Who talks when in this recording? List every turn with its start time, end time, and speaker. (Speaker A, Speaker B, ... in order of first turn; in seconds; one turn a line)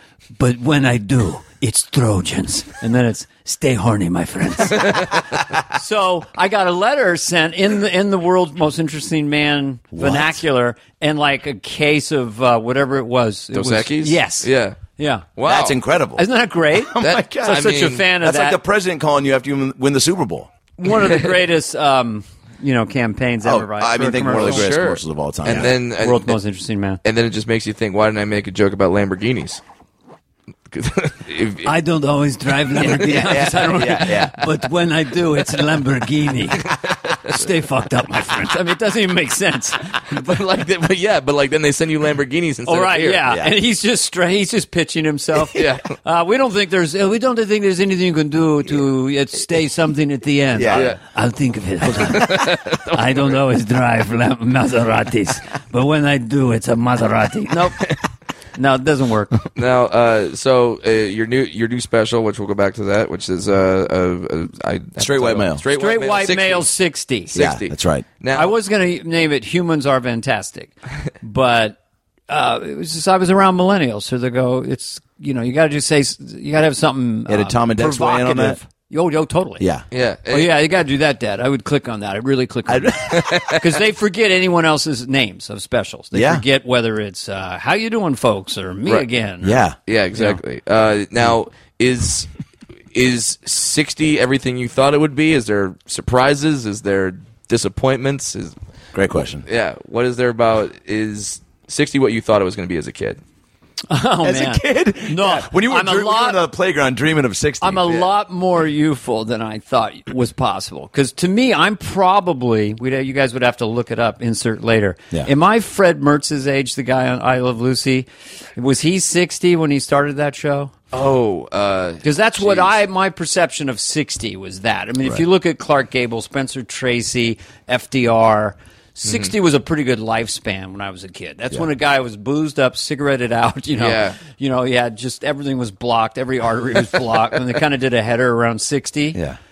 Speaker A: 0.3-15.3
Speaker B: 4.8-5.2
Speaker C: 9.9-10.4
Speaker B: 13.5-14.8
Speaker B: 15.4-15.8
Speaker C: 15.4-20.5
Speaker A: 16.2-18.6
Speaker B: 17.0-18.0
Speaker A: 20.8-24.7
Speaker C: 23.4-25.7
Speaker B: 24.3-26.4
Speaker A: 25.5-27.0
Speaker B: 27.0-29.6
Speaker B: 30.7-31.7
Speaker A: 31.6-36.7
Speaker C: 32.8-34.3
Speaker B: 36.6-37.5
Speaker A: 37.2-40.0
Speaker B: 40.0-43.3
Speaker A: 42.6-57.9
Speaker C: 43.3-43.5
Speaker B: 45.5-46.0
Speaker C: 50.5-50.9
Speaker B: 50.7-51.0
Speaker B: 52.0-53.3
Speaker A: 58.5-59.4
Speaker B: 59.5-66.7
Speaker C: 65.0-65.6
Speaker A: 65.7-67.3
Speaker B: 67.3-68.5
Speaker C: 67.3-68.0
Speaker A: 68.3-71.8
Speaker A: 72.3-79.7
Speaker C: 77.3-78.6
Speaker C: 79.6-79.8
Speaker B: 79.9-80.6
Speaker A: 80.3-89.6
Speaker C: 82.7-83.6
Speaker B: 83.1-83.7
Speaker C: 86.1-86.4
Speaker C: 89.4-89.8
Speaker B: 89.8-92.3
Speaker B: 92.9-98.5
Speaker C: 98.9-99.4
Speaker B: 99.4-103.2
Speaker A: 103.9-106.4
Speaker C: 104.2-107.9
Speaker A: 107.6-120.7
Speaker B: 120.9-122.8
Speaker A: 122.0-139.2
Speaker B: 129.0-129.3
Speaker B: 133.8-134.2